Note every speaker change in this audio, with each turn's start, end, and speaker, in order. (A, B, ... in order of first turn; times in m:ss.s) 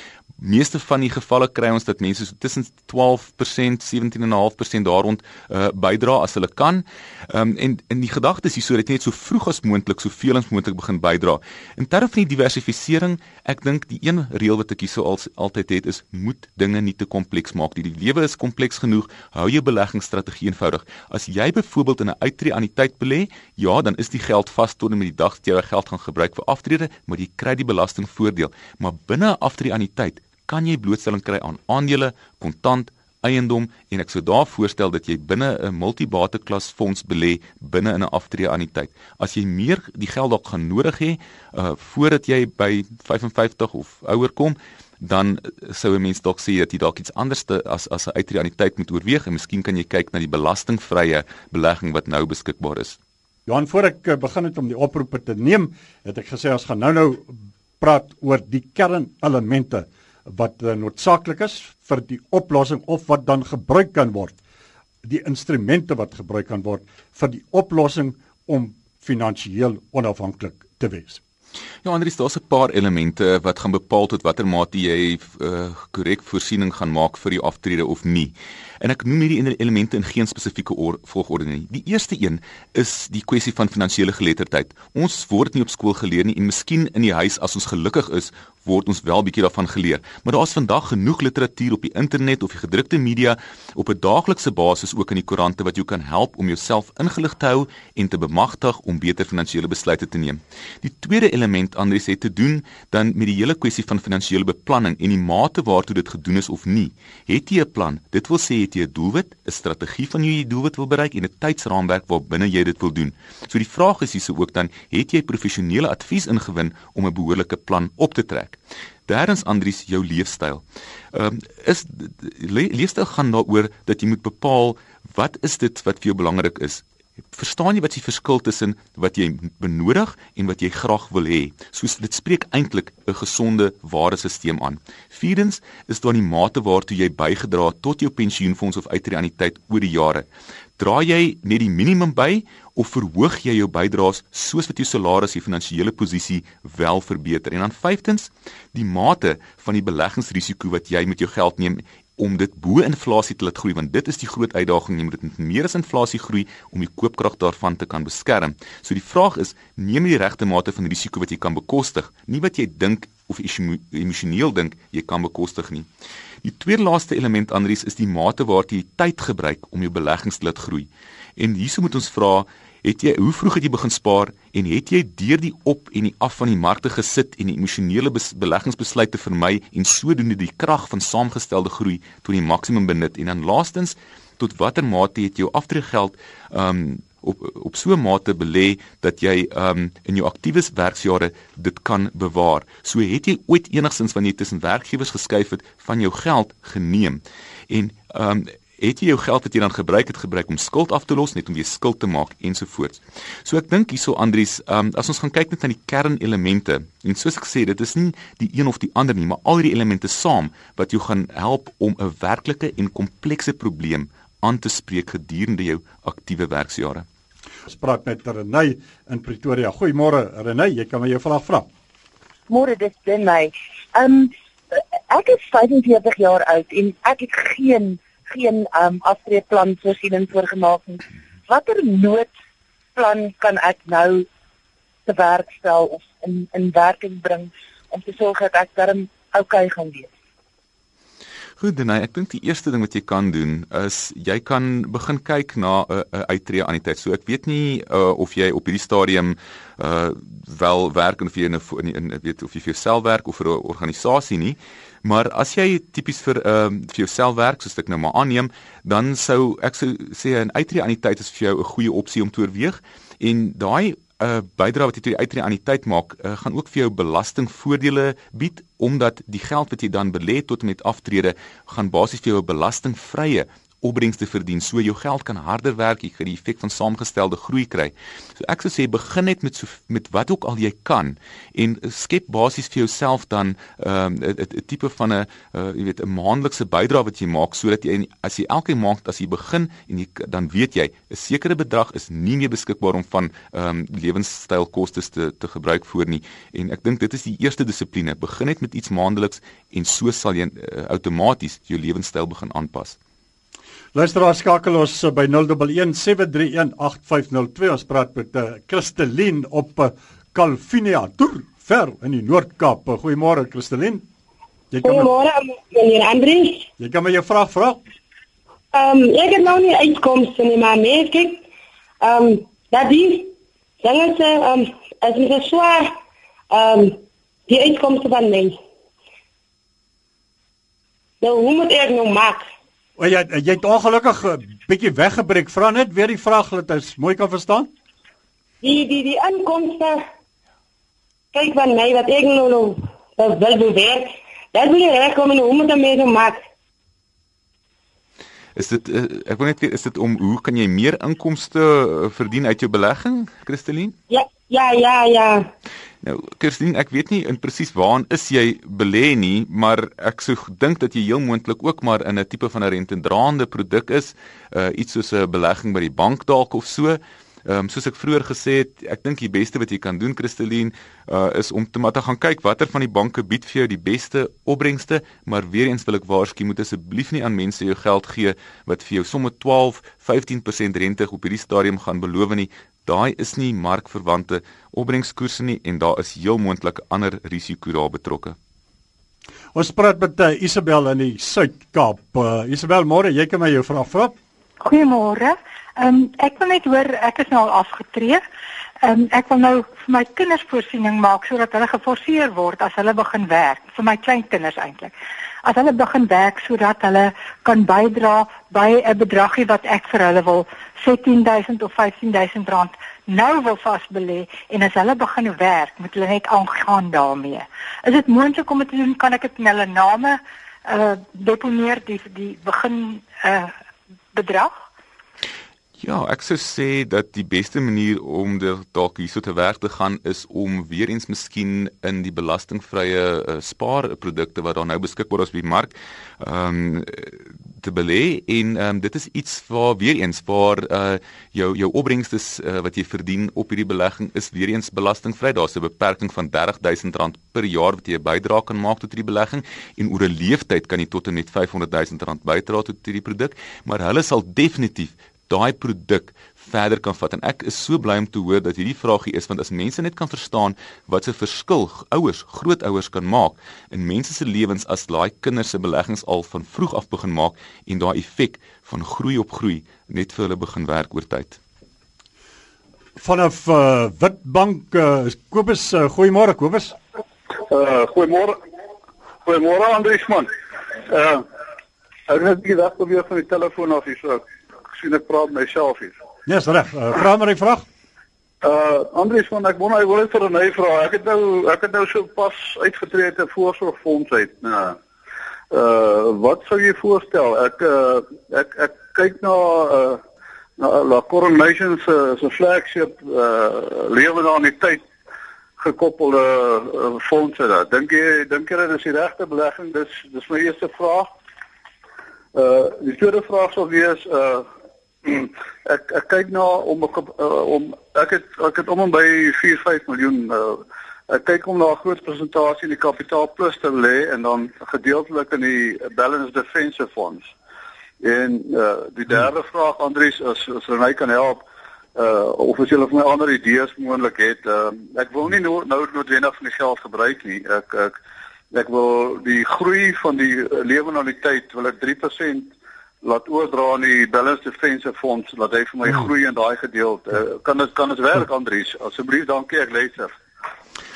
0:00.4-0:53.0 A
0:53.5-1:04.4 B
1:05.0-1:11.2 B
1:11.8-2:20.2 A
2:20.8-2:45.9 A
2:46.4-3:37.0 A
3:37.7-3:41.7 B
3:42.5-3:52.3 C
3:52.9-3:54.3 C
3:55.0-4:00.1 C
4:01.6-5:03.0 A
5:03.9-5:14.1 B
5:14.7-5:15.1 B
5:14.8-5:16.7 D
5:16.8-5:17.8 B
5:18.7-5:21.4 D
5:22.0-5:23.3 D
5:23.8-5:25.9 D
5:26.5-5:27.0 D
5:27.5-5:28.6 D
5:31.2-5:32.4 D
5:33.0-5:37.7 B
5:38.6-5:40.0 D
5:41.3-5:46.4 D
5:48.5-5:53.9 A
5:54.1-5:55.4 D
5:56.0-6:28.4 A
6:29.5-6:34.1 B
6:34.6-6:38.2 E
6:38.8-6:44.9 E
6:45.4-7:03.5 E
7:04.1-7:04.6 E
7:05.8-7:51.4 A
7:53.0-7:56.8 B
7:57.5-7:58.4 F
7:59.2-8:00.3 F
8:00.8-8:01.2 F
8:02.1-8:04.2 F
8:04.8-8:05.9 F
8:06.2-8:07.6 B
8:08.4-8:14.8 F
8:15.5-8:20.0 F
8:20.6-8:24.8 F
8:25.6-8:31.1 F
8:32.3-8:34.5 F
8:35.0-8:47.3 F
8:48.0-8:51.4 F
8:52.0-8:57.9 F
8:58.5-9:02.5 F
9:03.0-9:10.1 F